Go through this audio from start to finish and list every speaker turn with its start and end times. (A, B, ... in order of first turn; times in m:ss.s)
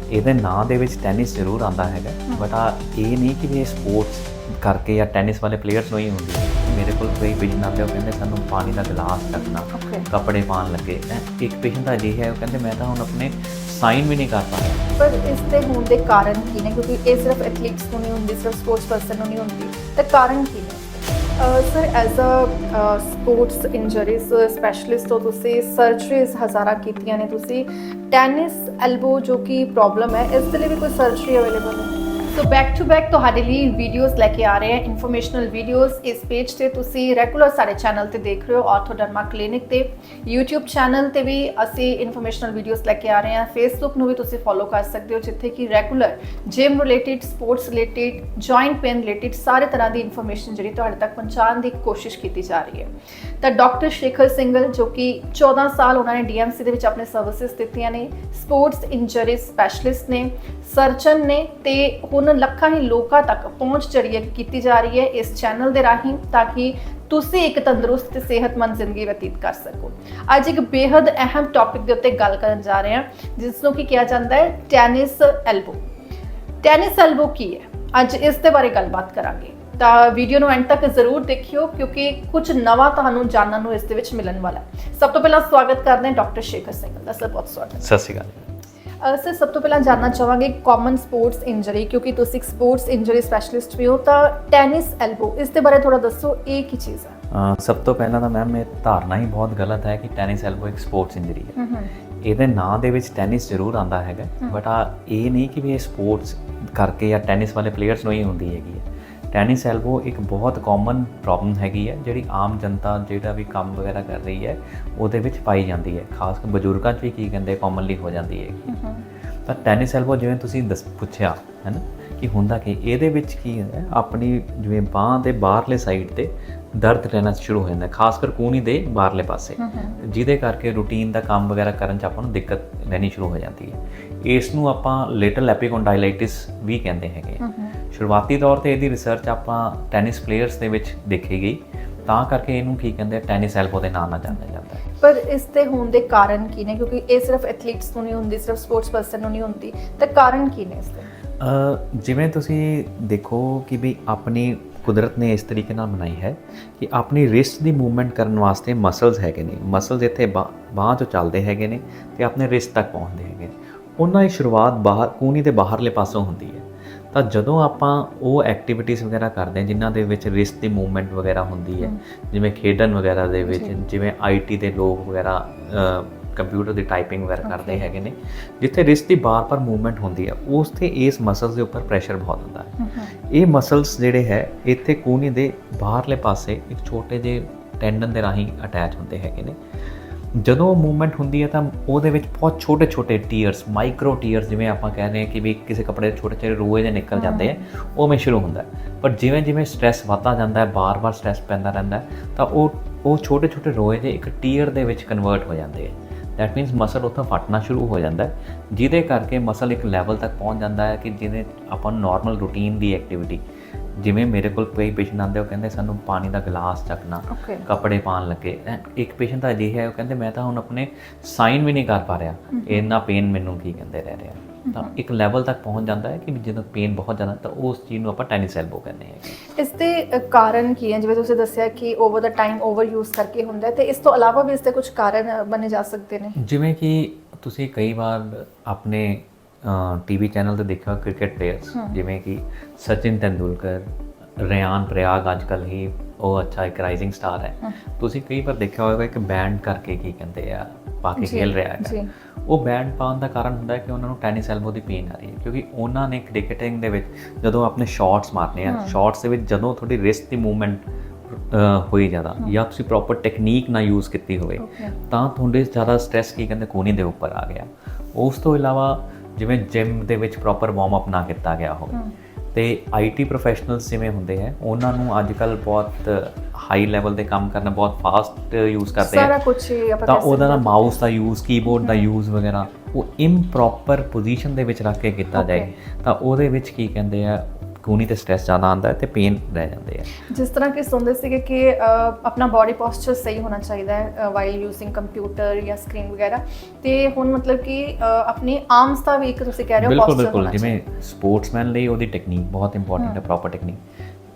0:00.1-0:14.8 A
0:09.7-0:10.1 B
0:15.0-1:15.8 B
1:16.6-1:27.8 B
1:27.8-1:28.5 A
1:29.0-1:37.2 B
1:37.3-1:41.5 A
1:41.6-1:41.9 B
1:42.2-1:58.7 A
1:58.7-1:59.0 B
1:59.4-2:24.8 A
2:09.6-2:10.0 B
2:17.4-2:17.8 B
2:25.0-2:31.1 B
2:31.4-3:09.6 A
2:53.4-2:53.7 B
2:57.4-2:57.9 B
3:02.8-3:03.1 B
3:10.3-3:33.4 A
3:17.1-3:17.6 B
3:34.0-3:49.4 A
3:37.3-3:37.6 B
3:42.5-3:42.9 B
3:44.6-3:44.9 B
3:49.5-3:56.4 B
3:56.4-4:32.0 A
4:01.7-4:02.0 B
4:11.2-4:12.1 B
4:18.7-4:19.0 B
4:24.6-4:24.9 B
4:32.5-4:39.3 A
4:39.0-4:40.9 B
4:40.0-4:50.1 A
4:41.8-4:42.1 B
4:45.3-4:45.7 B
4:50.2-5:00.8 B
4:59.8-5:03.8 A